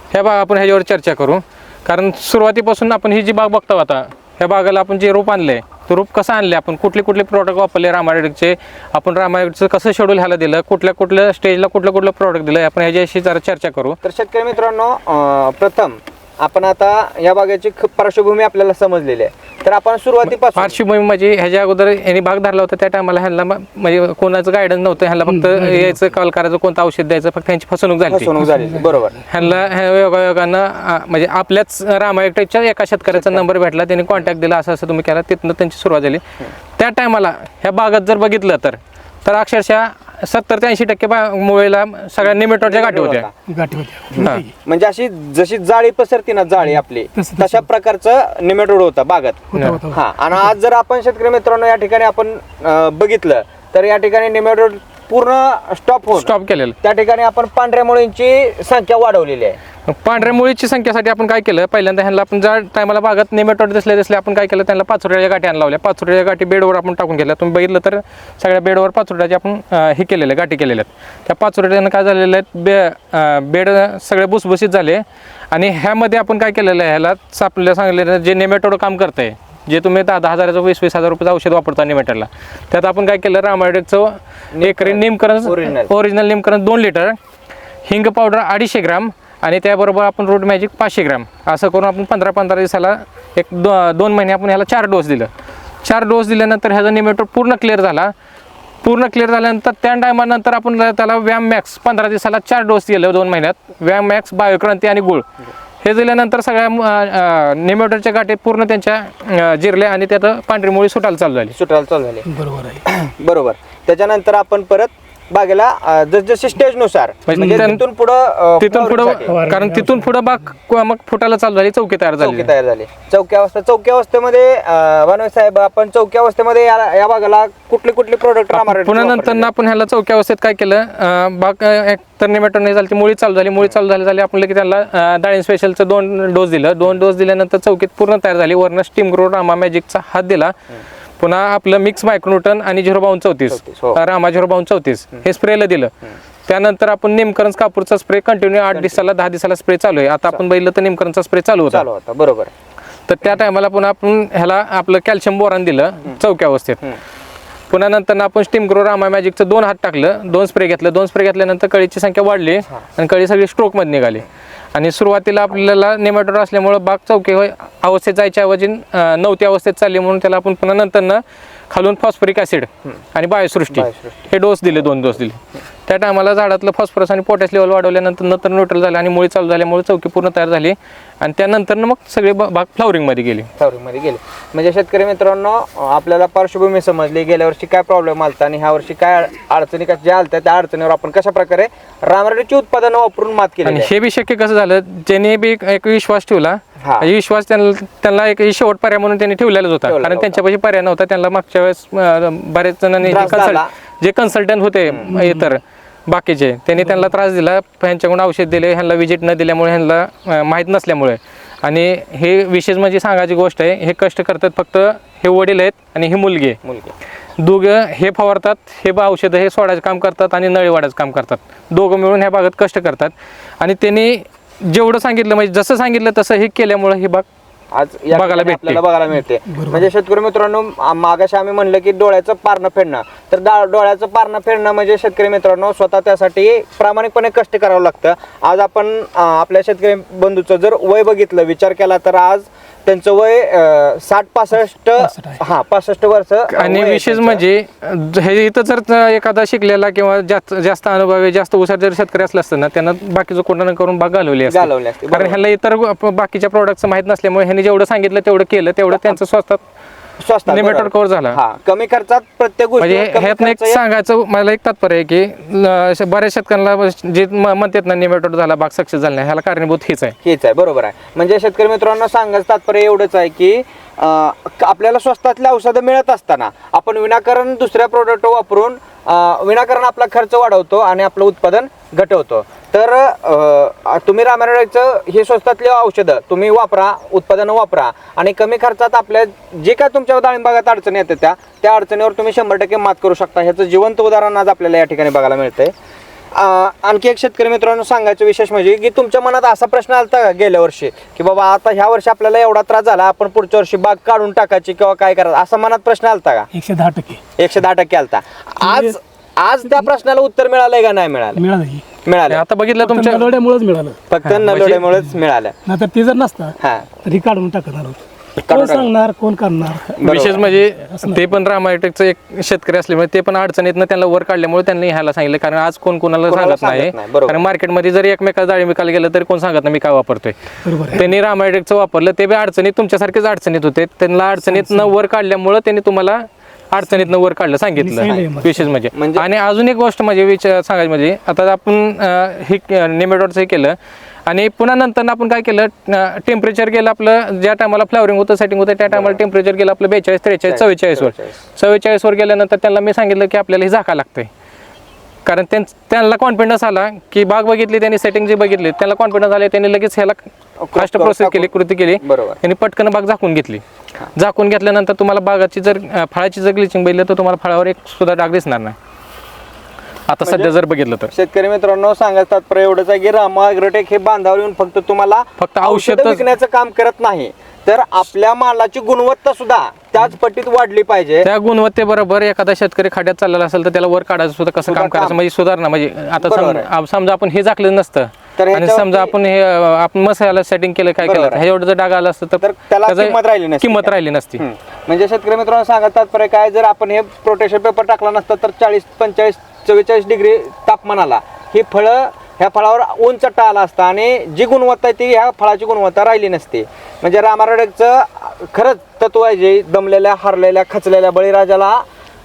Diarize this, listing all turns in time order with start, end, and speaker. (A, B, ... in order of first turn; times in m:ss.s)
0:00.1-0:14.0 A
0:14.0-0:20.8 B
0:20.5-0:28.4 A
0:25.3-0:26.0 C
0:28.1-0:29.2 B
0:28.4-0:29.6 C
0:29.3-0:36.2 A
0:33.1-0:33.4 B
0:36.8-0:43.3 A
0:42.2-0:43.3 B
0:43.5-0:44.5 C
0:44.1-0:56.3 B
0:46.6-0:47.6 C
0:49.5-0:50.5 C
0:49.5-0:49.8 A
0:56.2-0:56.8 A
0:56.8-0:59.6 B
0:59.9-1:27.2 A
1:24.5-1:25.9 B
1:27.9-1:35.3 A
1:35.8-1:38.1 A
1:38.8-1:45.2 A
1:45.8-1:51.6 A
1:51.5-1:52.3 B
1:52.3-1:52.8 C
1:52.8-1:59.3 B
1:57.3-1:57.8 A
1:57.3-1:57.7 C
1:58.6-2:02.5 A
1:59.2-2:00.2 C
2:02.2-2:09.5 B
2:08.5-2:20.5 A
2:21.2-2:25.9 A
2:23.5-2:24.0 B
2:26.5-2:31.8 A
2:28.7-2:29.0 B
2:31.7-2:32.5 B
2:33.1-2:36.8 A
2:37.7-3:03.5 A
2:53.7-2:54.3 B
3:03.6-3:13.9 B
3:13.6-3:36.6 A
3:16.8-3:17.1 B
3:19.9-3:20.4 B
3:23.0-3:23.7 B
3:24.9-3:25.1 B
3:25.1-3:25.5 C
3:36.6-3:36.9 B
3:37.4-3:47.2 A
3:47.7-4:07.4 B
3:48.1-3:48.8 A
3:49.5-3:49.9 C
4:05.0-4:05.4 C
4:06.5-4:19.6 A
4:14.5-4:15.4 B
4:18.9-4:19.2 B
4:20.2-4:23.8 B
4:20.5-4:21.4 A
4:22.8-4:30.2 A
4:30.2-4:55.7 B
4:56.3-5:06.5 B
5:06.5-5:07.2 C
5:07.4-5:11.4 B
5:08.6-5:09.0 C
5:11.3-5:11.9 C
5:12.0-5:12.4 B
5:12.3-5:13.3 A
5:12.8-5:14.0 C
5:14.1-5:15.5 B
5:14.2-5:14.9 A
5:15.6-5:21.3 C
5:16.6-5:16.9 B
5:18.4-5:18.9 B
5:20.0-5:30.3 A
5:20.0-5:20.4 B
5:26.3-5:27.4 B
5:30.6-5:31.1 C
5:30.9-5:54.3 A
5:34.4-5:34.9 C
5:36.8-5:37.1 C
5:37.8-5:38.7 C
5:38.0-5:38.3 B
5:38.9-5:39.2 B
5:48.9-5:49.2 B
5:50.5-5:51.4 B
5:55.2-6:00.2 A
6:00.6-6:02.4 B
6:00.7-6:03.6 A
6:04.1-6:08.8 A
6:10.1-6:11.1 A
6:10.2-6:10.5 B
6:11.1-6:21.3 B
6:15.4-6:16.2 A
6:21.2-6:34.4 A
6:24.6-6:25.2 B
6:26.2-6:26.7 B
6:28.4-6:29.1 B
6:31.0-6:31.5 B
6:32.4-6:51.8 B